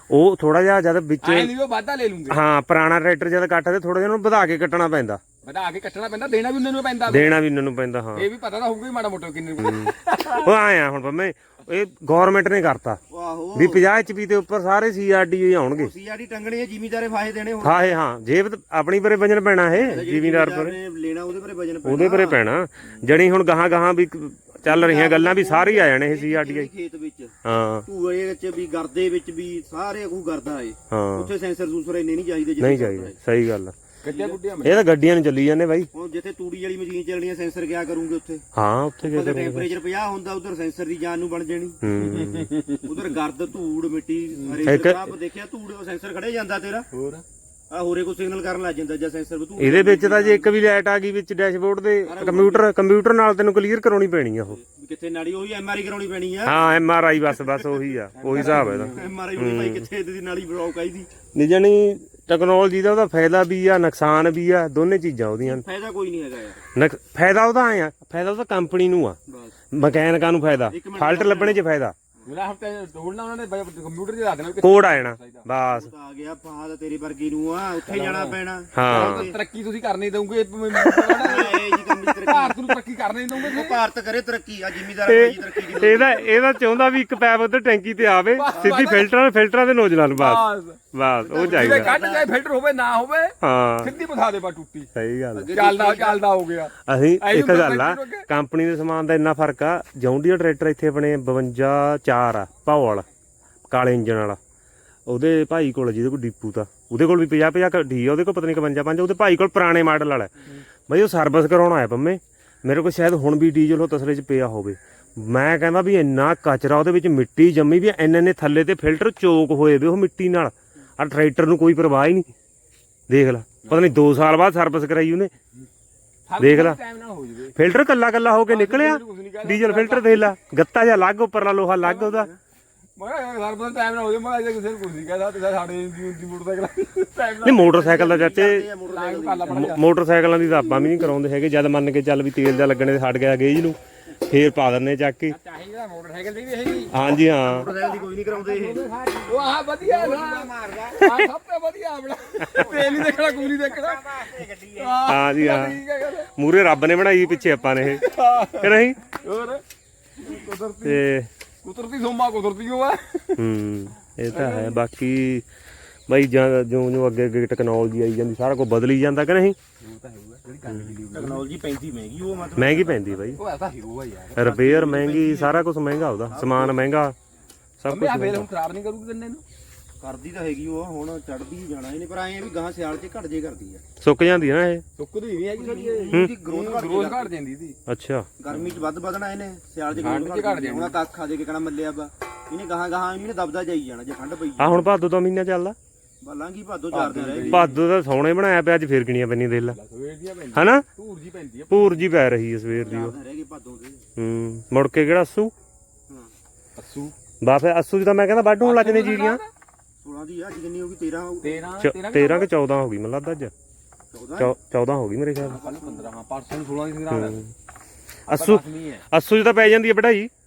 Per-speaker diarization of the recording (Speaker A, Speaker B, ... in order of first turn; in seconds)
Speaker A: 0.1-1.5, 2.3-5.2, 7.1-8.3, 9.6-13.0, 13.6-15.9, 17.6-20.8, 21.9-26.7, 27.4-27.9, 30.9-31.3, 32.6-33.8, 34.6-35.9, 38.6-39.7, 41.8-42.5, 44.7-45.1, 49.6-54.6, 56.5-59.9, 61.3-65.7, 66.8-69.2, 69.7-71.9, 74.6-75.9, 78.7-79.3, 85.0-91.9, 93.4-93.9, 95.0-95.5, 96.9-103.1, 103.7-104.4, 105.1-110.3, 110.9-122.3, 123.1-125.3, 126.4-126.8, 127.5-132.3, 137.4-138.7, 139.5-145.4, 146.9-147.7, 155.1-155.8, 156.3-159.1, 160.8-161.3, 163.4-165.5, 166.1-169.6, 172.6-173.4, 174.4-177.2, 177.8-178.5, 184.0-184.8, 187.9-188.3, 194.6-195.8, 197.5-199.8, 200.5-200.8, 201.7-203.2, 204.2-205.5, 207.4-209.4, 211.8-213.5, 214.4-215.6, 217.1-217.5, 218.3-220.3
Speaker B: 1.2-2.4, 5.4-7.4, 8.2-10.5, 34.0-34.8, 42.0-43.0, 44.4-44.7, 46.9-47.2, 58.1-59.1, 72.3-75.5, 77.9-83.8, 88.3-89.1, 90.2-90.8, 91.3-94.9, 95.5-98.3, 126.3-127.5, 128.5-130.3, 131.8-132.2, 133.0-138.1, 138.9-139.8, 145.3-146.9, 147.6-156.3, 157.8-159.6, 160.2-161.1, 161.6-163.4, 164.3-164.8, 169.8-171.4, 173.3-174.6, 177.9-179.4, 185.0-187.8, 188.5-188.8, 190.0-191.0, 196.9-197.8, 199.7-202.1, 206.8-207.1, 208.6-209.5, 211.4-212.5, 215.5-217.4, 218.3-219.1
Speaker C: 13.1-13.8, 15.8-17.9, 19.8-22.4, 24.6-27.3, 27.9-33.2, 34.0-34.4, 35.9-38.5, 39.0-41.8, 42.8-46.9, 47.7-50.5, 52.1-52.7, 54.5-56.6, 58.3-61.1, 65.4-66.6, 69.3-69.5, 70.7-71.6, 75.7-79.4, 81.0-82.8, 83.3-86.4, 91.3-92.3, 95.3-96.3, 137.7-139.8, 147.4-149.0, 149.8-151.1, 152.6-155.0, 171.1-173.2, 174.4-175.6, 176.3-176.9, 180.0-183.8, 185.6-187.3, 188.4-194.9, 196.2-197.7, 202.7-204.0, 210.0-211.7, 214.1-214.5, 215.5-216.1